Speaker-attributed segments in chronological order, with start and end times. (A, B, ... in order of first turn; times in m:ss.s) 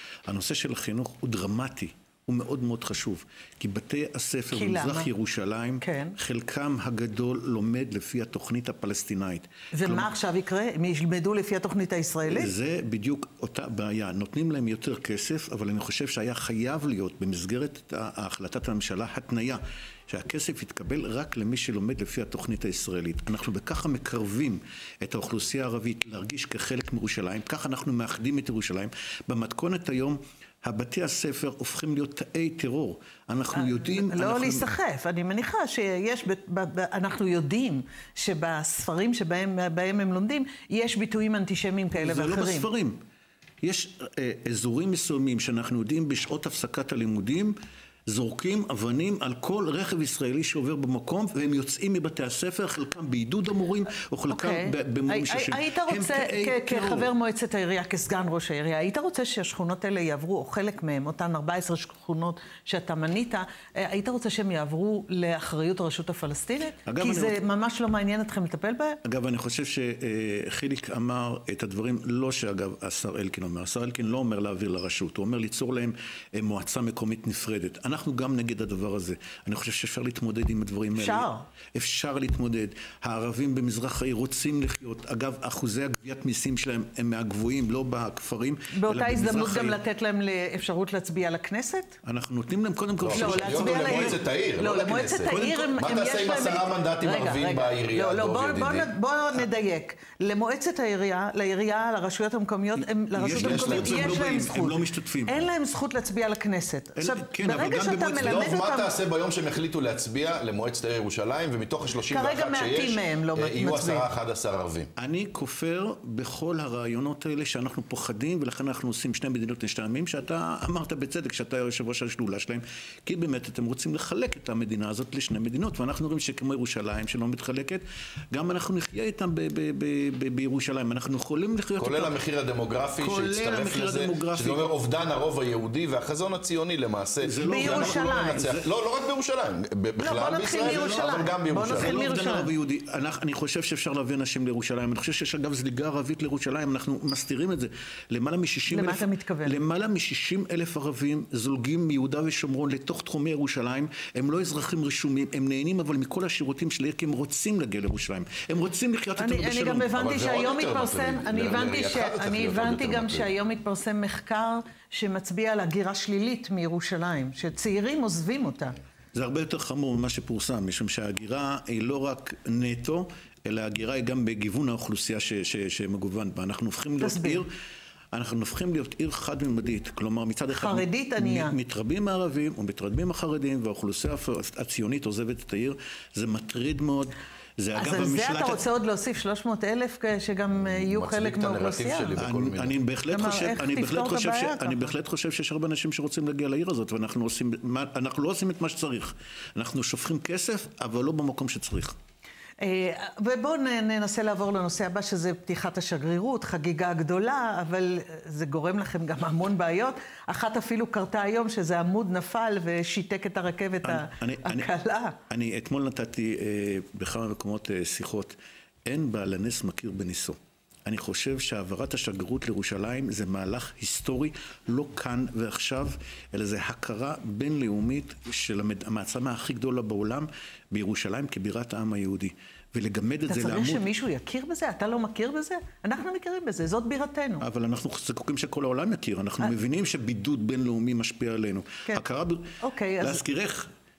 0:00.3-0:10.1 A
0:04.5-0:05.1 B
0:05.8-0:06.2 B
0:09.7-0:12.5 B
0:12.3-0:34.7 A
0:33.5-0:42.7 B
0:42.0-0:43.0 A
0:43.6-0:47.6 A
0:48.1-0:57.1 A
0:54.3-1:09.0 B
1:06.9-1:07.4 A
1:09.0-1:29.8 A
1:21.0-1:21.4 B
1:28.7-1:32.0 B
1:32.0-1:34.2 A
1:33.0-1:38.9 C
1:33.1-1:48.9 B
1:35.3-1:35.8 A
1:43.2-1:45.4 A
1:43.3-1:44.3 C
1:47.0-1:48.6 A
1:48.2-1:54.9 C
1:52.1-1:54.1 B
1:55.0-2:12.1 A
2:11.8-2:22.0 C
2:13.0-2:14.7 A
2:17.2-2:18.6 A
2:17.4-2:18.4 B
2:20.0-2:22.5 B
2:20.6-2:21.1 A
2:21.7-2:40.0 A
2:28.7-2:29.6 B
2:39.2-2:48.8 B
2:39.9-2:43.3 C
2:49.1-2:57.5 A
2:57.0-2:57.4 B
2:58.1-3:08.6 A
3:00.6-3:01.6 B
3:07.8-3:12.2 B
3:10.6-3:12.8 C
3:12.2-3:22.0 A
3:13.1-3:14.9 B
3:22.6-3:35.2 B
3:33.8-3:34.7 A
3:35.3-3:53.8 A
3:53.3-3:57.4 B
3:57.4-4:03.7 A
4:02.6-4:03.2 B